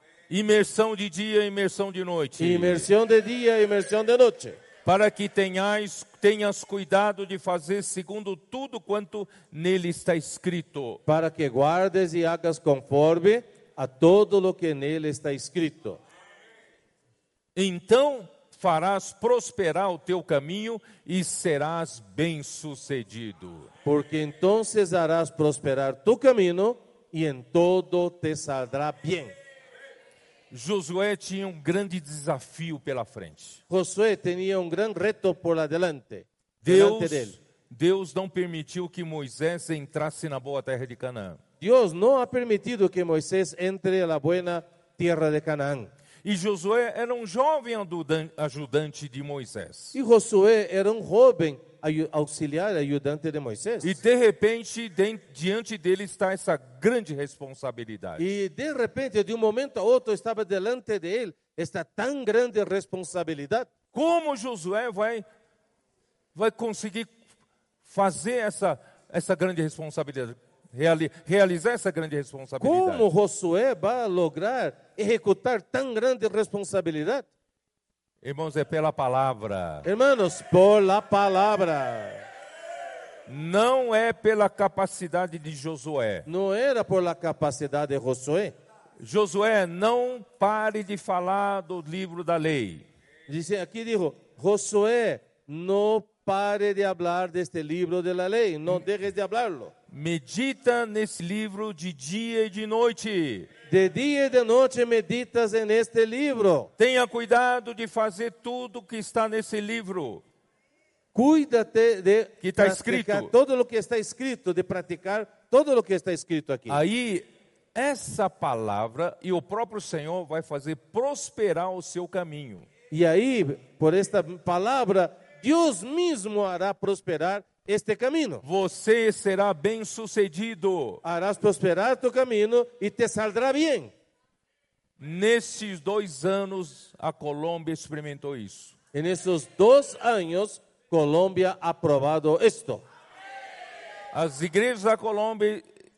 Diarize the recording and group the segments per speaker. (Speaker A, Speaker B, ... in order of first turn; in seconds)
Speaker A: 0.3-2.9, 4.8-11.0, 17.5-23.7, 30.5-33.6, 36.6-41.4, 46.2-49.9, 53.8-58.2, 63.9-65.2, 66.3-67.1, 67.8-73.0, 78.2-79.9, 83.3-86.3, 89.0-92.8, 99.9-103.5, 106.8-110.2, 112.4-113.3, 116.7-122.7, 128.4-131.0, 135.0-138.7, 144.1-145.6
Speaker B: 2.4-4.6, 11.1-16.0, 23.8-29.3, 33.7-37.4, 41.6-45.9, 49.9-54.0, 58.2-63.7, 72.6-77.3, 79.8-82.2, 86.2-88.5, 93.3-99.7, 103.7-106.7, 111.1-116.8, 122.9-128.4, 131.0-133.9, 138.9-142.8